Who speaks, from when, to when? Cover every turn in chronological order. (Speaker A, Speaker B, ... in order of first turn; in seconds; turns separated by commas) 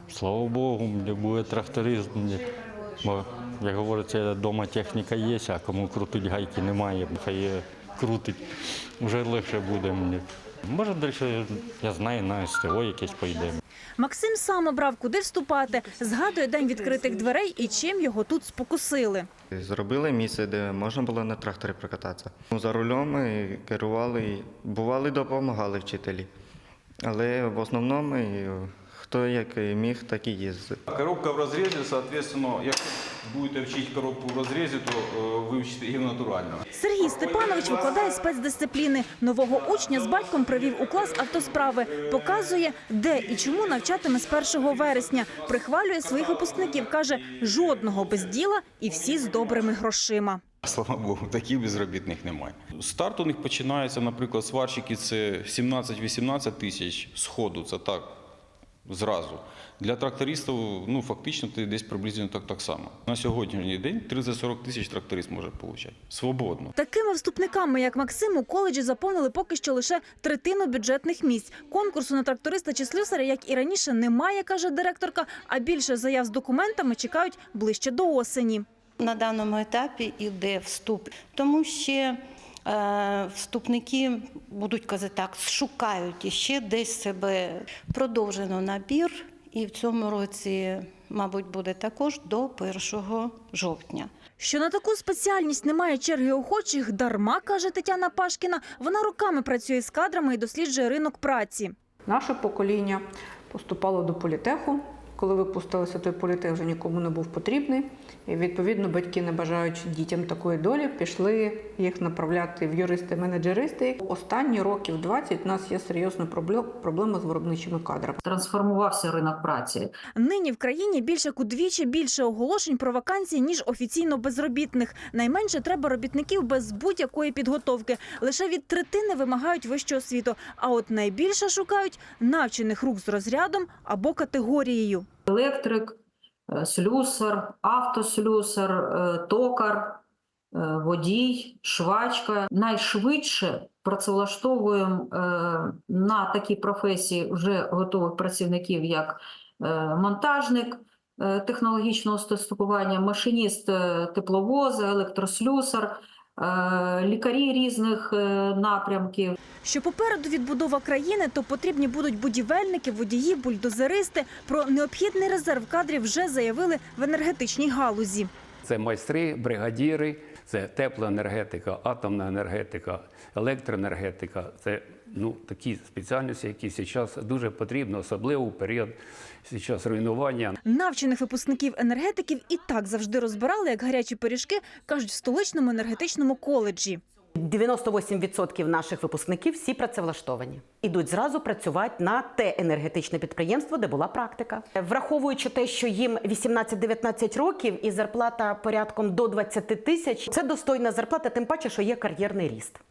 Speaker A: 0.1-2.4, Speaker A: 3.0-13.6, Speaker B: 14.0-19.3, Speaker C: 19.5-26.3, Speaker C: 27.0-30.8, Speaker D: 30.9-36.6, Speaker B: 36.7-50.4, Speaker D: 50.6-58.1, Speaker D: 58.9-66.7, Speaker B: 66.8-78.6, Speaker E: 79.0-94.1, Speaker B: 94.4-101.7, Speaker F: 102.0-118.2, Speaker G: 118.2-119.9, Speaker B: 120.2-135.1, Speaker G: 135.3-135.9, Speaker G: 136.5-140.0, Speaker G: 140.5-159.3, Speaker B: 159.6-168.3, Speaker H: 168.6-180.6, Speaker B: 180.6-187.0, Speaker I: 187.3-202.8